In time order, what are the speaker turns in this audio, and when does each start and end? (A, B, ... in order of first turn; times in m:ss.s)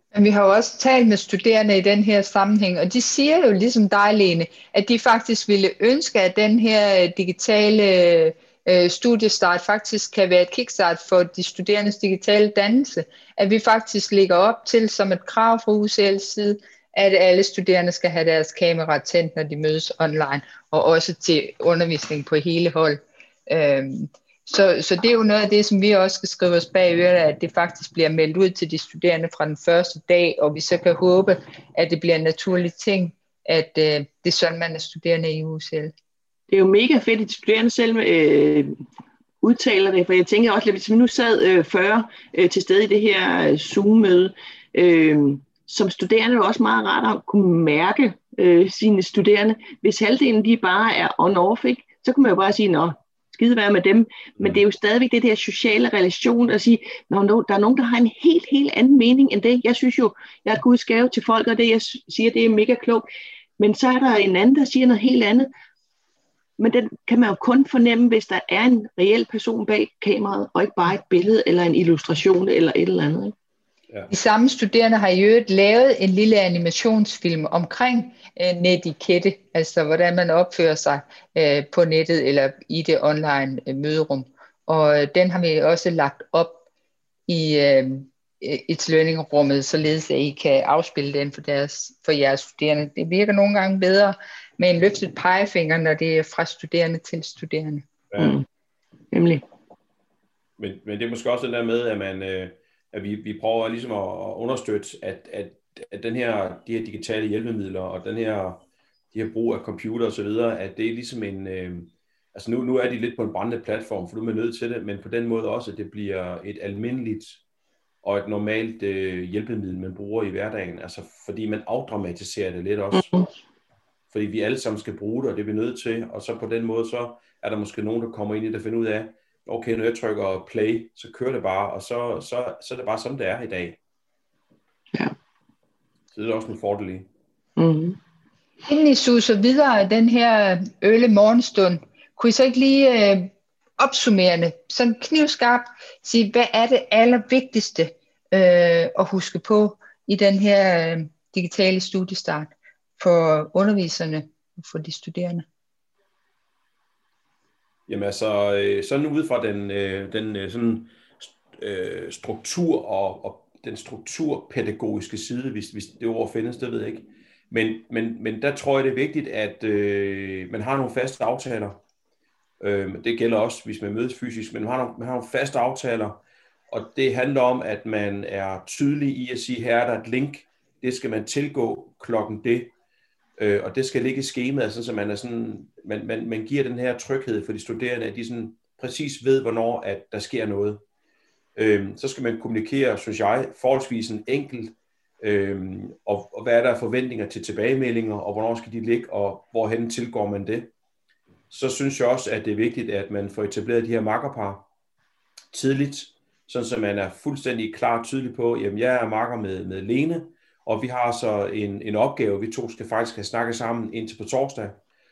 0:00.1-0:35.9 A
0:36.5-0:38.7 B
0:39.4-1:03.0 B
1:03.6-1:05.5 B
1:06.6-1:13.3 B
1:14.1-1:26.6 A
1:27.3-1:37.8 A
1:38.1-1:38.3 C
1:38.2-1:38.4 B
1:39.1-1:39.4 B
1:40.6-1:48.6 C
1:49.1-1:57.4 C
1:58.0-2:03.1 C
2:03.0-2:03.3 B
2:04.1-2:13.8 C
2:16.1-2:17.1 C
2:17.6-2:18.0 B
2:18.7-2:35.4 A
2:37.9-2:51.8 C
2:52.6-3:02.7 C
3:03.4-3:10.8 C
3:11.6-3:20.7 C
3:21.5-3:24.6 C
3:25.5-3:34.8 C